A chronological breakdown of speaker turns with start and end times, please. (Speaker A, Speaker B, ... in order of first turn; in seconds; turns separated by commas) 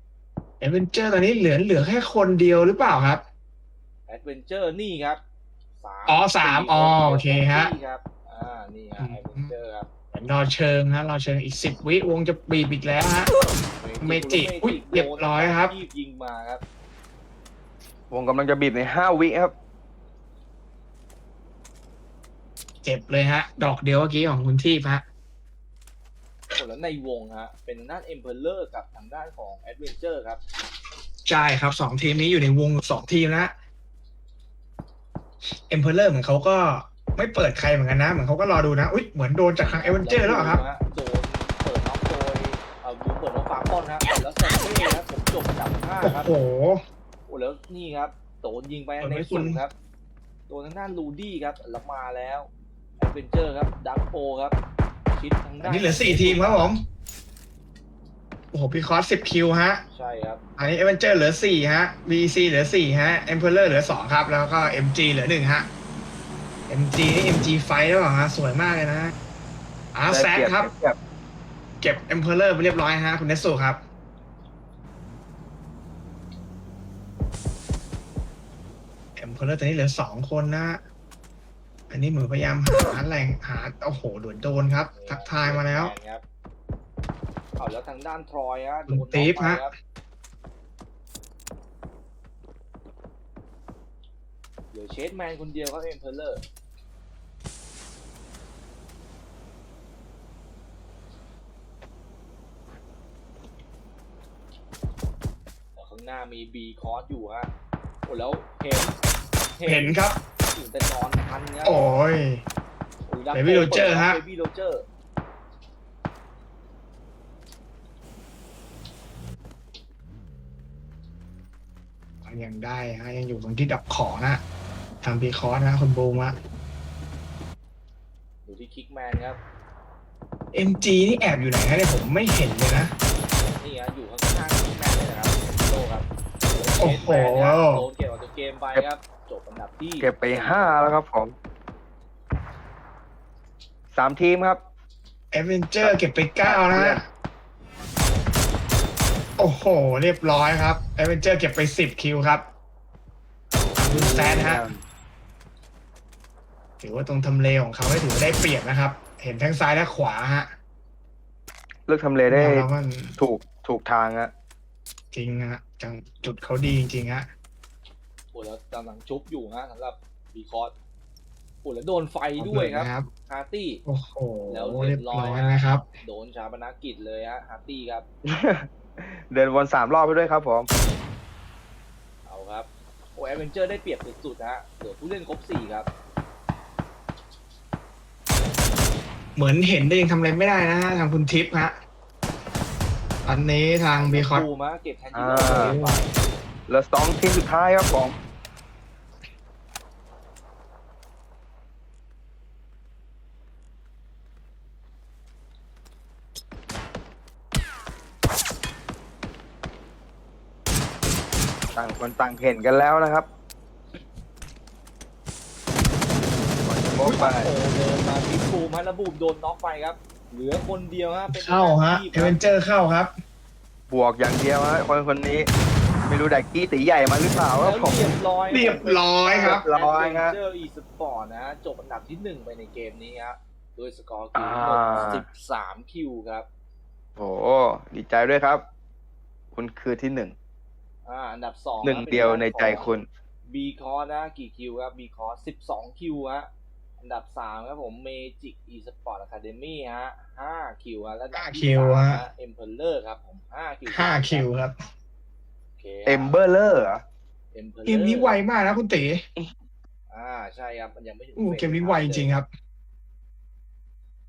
Speaker A: 0.6-3.2, Speaker B: 4.1-5.2, Speaker B: 5.8-9.9, Speaker A: 6.1-7.7, Speaker A: 9.0-9.5, Speaker A: 10.1-13.3, Speaker B: 13.6-16.6, Speaker A: 14.0-15.8, Speaker C: 18.1-19.5, Speaker A: 22.8-25.0, Speaker B: 26.6-30.4, Speaker A: 31.3-33.5, Speaker A: 35.5-40.6, Speaker B: 39.6-46.3, Speaker A: 46.0-46.8, Speaker B: 47.3-49.7, Speaker A: 49.0-49.6, Speaker B: 50.5-54.6, Speaker B: 55.1-56.8, Speaker A: 55.6-56.9, Speaker A: 58.5-59.8, Speaker B: 59.9-60.4, Speaker A: 60.6-65.7, Speaker A: 66.7-69.1, Speaker A: 69.9-70.7, Speaker C: 70.1-71.0, Speaker A: 71.8-73.8, Speaker A: 79.2-80.8, Speaker A: 81.9-85.9, Speaker B: 84.9-86.2, Speaker B: 87.6-89.7, Speaker A: 88.9-89.7, Speaker B: 94.7-96.4, Speaker B: 105.8-107.5, Speaker B: 108.0-109.0, Speaker B: 109.6-110.0, Speaker A: 109.7-110.2, Speaker B: 110.5-111.9, Speaker A: 111.6-112.5, Speaker B: 113.1-114.8, Speaker A: 113.3-114.2, Speaker A: 122.2-124.4, Speaker A: 125.0-126.4, Speaker B: 128.4-129.4, Speaker A: 130.5-132.9, Speaker B: 133.6-140.9, Speaker A: 136.8-137.8, Speaker C: 140.0-141.3, Speaker C: 143.9-144.6, Speaker A: 145.3-147.1, Speaker C: 145.8-147.0, Speaker A: 149.4-152.5, Speaker C: 153.6-154.8, Speaker A: 153.8-154.6, Speaker A: 156.8-160.5, Speaker C: 161.9-162.7, Speaker A: 162.3-163.2, Speaker C: 163.2-164.3, Speaker A: 165.1-167.3, Speaker B: 168.3-170.7, Speaker B: 171.6-173.8, Speaker A: 172.4-173.1, Speaker A: 173.9-175.9, Speaker B: 174.5-178.1, Speaker C: 178.2-180.7, Speaker B: 182.3-185.9, Speaker A: 189.4-191.8, Speaker A: 193.2-194.5, Speaker B: 193.9-196.1, Speaker C: 195.1-195.8, Speaker A: 195.4-196.0, Speaker C: 196.7-198.2, Speaker C: 211.8-213.3, Speaker C: 216.6-217.5, Speaker B: 217.0-222.4, Speaker A: 221.3-223.1, Speaker C: 223.9-225.5, Speaker C: 226.1-228.1, Speaker B: 227.6-236.5, Speaker A: 228.5-229.7, Speaker C: 229.4-230.4, Speaker C: 234.3-235.2, Speaker C: 237.2-238.7, Speaker C: 239.5-240.3, Speaker B: 241.1-242.9, Speaker C: 241.8-243.1, Speaker B: 243.5-246.5, Speaker B: 247.0-254.5, Speaker A: 251.3-252.2, Speaker A: 253.9-254.8, Speaker B: 255.8-256.4, Speaker C: 256.1-257.0, Speaker B: 257.5-258.4, Speaker A: 257.9-259.2, Speaker B: 260.1-262.3, Speaker A: 261.4-262.5